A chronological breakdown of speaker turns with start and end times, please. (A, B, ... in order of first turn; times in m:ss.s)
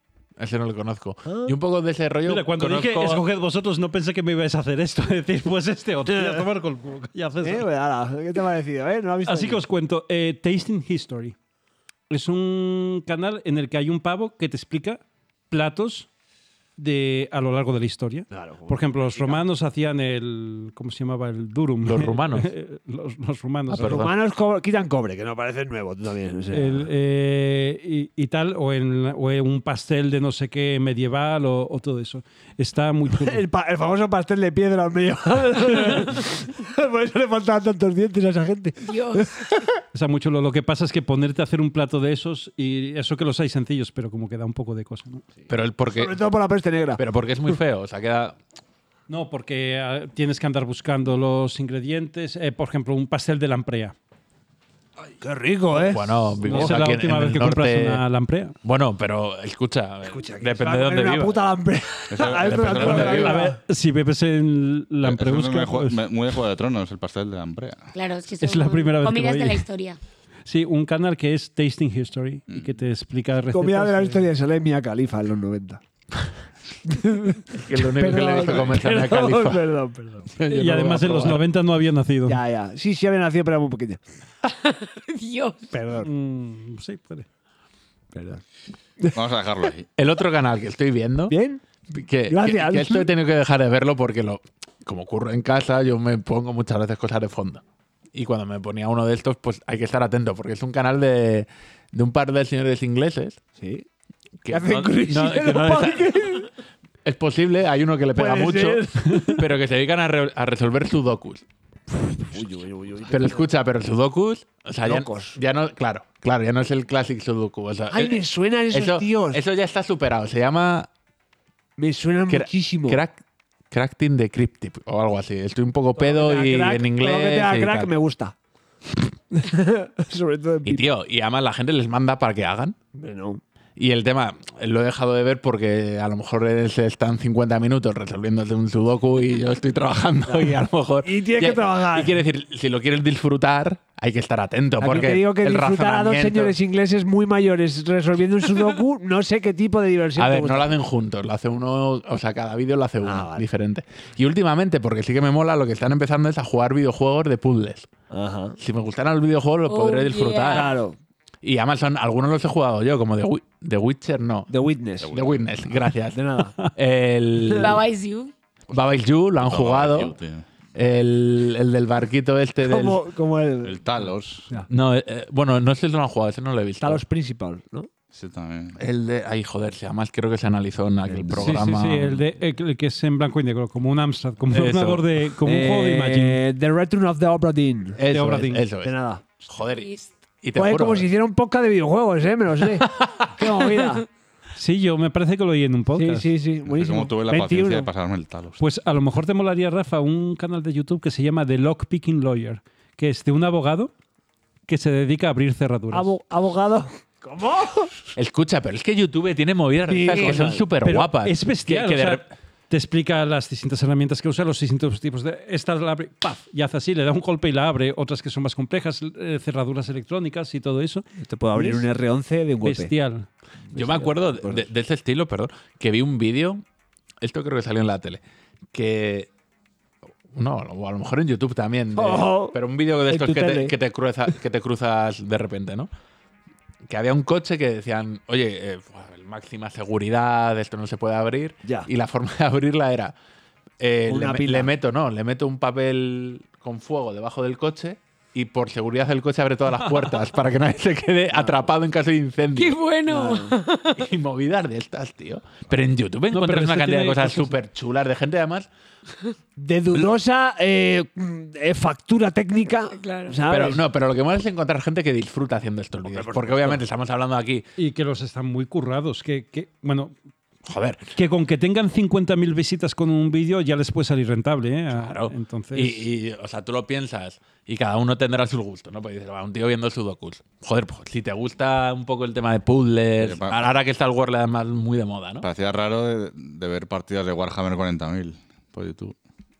0:00.4-0:03.3 A
0:01.3-0:01.6 B
0:02.3-0:07.7 C
0:06.1-0:06.4 B
0:07.4-0:09.6 B
0:09.3-0:11.4 C
0:12.1-0:16.1 C
0:16.8-0:24.1 C
0:18.3-0:19.4 B
0:21.8-0:22.5 A
0:23.7-0:24.1 A
0:23.7-0:26.9 B
0:26.5-0:33.4 C
0:33.1-0:39.7 B
0:38.8-0:39.4 D
0:39.9-0:45.2 C
0:45.5-0:46.2 A
0:45.9-0:47.0 B
0:47.0-0:48.4 A
0:49.1-0:54.0 C
0:55.2-0:56.8 B
0:55.8-0:58.0 A
0:56.4-0:58.6 C
0:58.6-1:01.4 A
1:00.1-1:03.6 B
1:02.1-1:03.4 E
1:02.4-1:03.4 A
1:02.8-1:06.0 C
1:05.0-1:07.9 E
1:07.9-1:10.0 D
1:08.4-1:09.6 C
1:10.5-1:14.3 C
1:13.5-1:15.8 B
1:16.9-1:20.3 B
1:17.5-1:19.7 A
1:20.3-1:21.4 A
1:20.5-1:22.4 C
1:22.3-1:24.0 B
1:24.5-1:25.7 D
1:25.7-1:26.1 B
1:26.0-1:27.3 C
1:28.1-1:28.4 B
1:29.1-1:29.9 E
1:30.0-1:31.4 A
1:31.3-1:31.6 B
1:31.9-1:37.6 A
1:32.3-1:33.1 B
1:38.1-1:43.4 A
1:43.6-1:43.9 B
1:44.4-1:46.3 A
1:44.5-1:46.5 B
1:47.0-1:51.4 A
1:48.2-1:49.5 B
1:52.2-1:53.5 B
1:53.1-2:00.9 A
1:54.8-1:55.4 B
1:57.9-1:59.4 B
2:01.8-2:03.0 B
2:02.3-2:07.9 A
2:06.0-2:08.4 B
2:09.3-2:10.9 B
2:10.6-2:12.8 A
2:12.9-2:13.4 B
2:13.8-2:26.6 A
2:20.3-2:22.2 B
2:24.8-2:30.7 B
2:30.2-2:37.9 A
2:33.0-2:33.4 B
2:38.1-2:38.6 B
2:38.6-2:40.8 A
2:39.7-2:40.7 D
2:40.5-2:41.0 B
2:41.4-2:44.5 A
2:44.5-2:45.1 B
2:45.0-2:45.6 E
2:45.1-2:47.8 A
2:46.1-2:46.6 B
2:47.5-2:47.8 B
2:47.5-2:48.3 D
2:48.7-2:50.2 A
2:49.4-2:50.5 E
2:50.8-2:53.0 A
2:52.6-2:53.9 B
2:53.6-2:54.6 E
2:54.7-2:57.0 A
2:56.8-2:57.9 B
2:58.1-2:58.8 E
2:58.8-3:02.2 A
3:01.1-3:01.5 B
3:01.3-3:06.4 C
3:04.5-3:05.2 A
3:05.4-3:08.0 B
3:08.0-3:08.9 A
3:08.1-3:08.6 C
3:08.8-3:09.2 B
3:09.5-3:11.1 A
3:09.8-3:10.1 D
3:10.6-3:14.1 B
3:12.8-3:13.3 A
3:14.6-3:16.3 C
3:16.0-3:17.9 B
3:16.6-3:18.6 E
3:18.6-3:23.9 C
3:24.7-3:26.1 C
3:25.9-3:27.9 B
3:28.2-3:32.2 A
3:29.9-3:30.6 B
3:30.8-3:41.9 C
3:41.2-3:42.9 B
3:42.6-3:43.3 C
3:43.7-3:44.7 B
3:43.7-3:46.6 A
3:47.2-3:48.2 A
3:48.7-3:49.3 A
3:50.3-3:55.9 A
3:52.0-3:53.8 B
3:56.9-4:03.2 A
4:03.8-4:12.8 A
4:04.1-4:04.7 B
4:12.6-4:14.0 D
4:13.1-4:13.6 B
4:14.0-4:18.7 A
4:16.3-4:17.6 C
4:19.6-4:23.8 B
4:23.0-4:23.4 D
4:23.5-4:27.7 A
4:27.8-4:30.1 C
4:30.6-4:31.0 A
4:31.2-4:36.1 C
4:34.9-4:45.5 A
4:43.2-4:43.7 E
4:45.4-4:49.2 E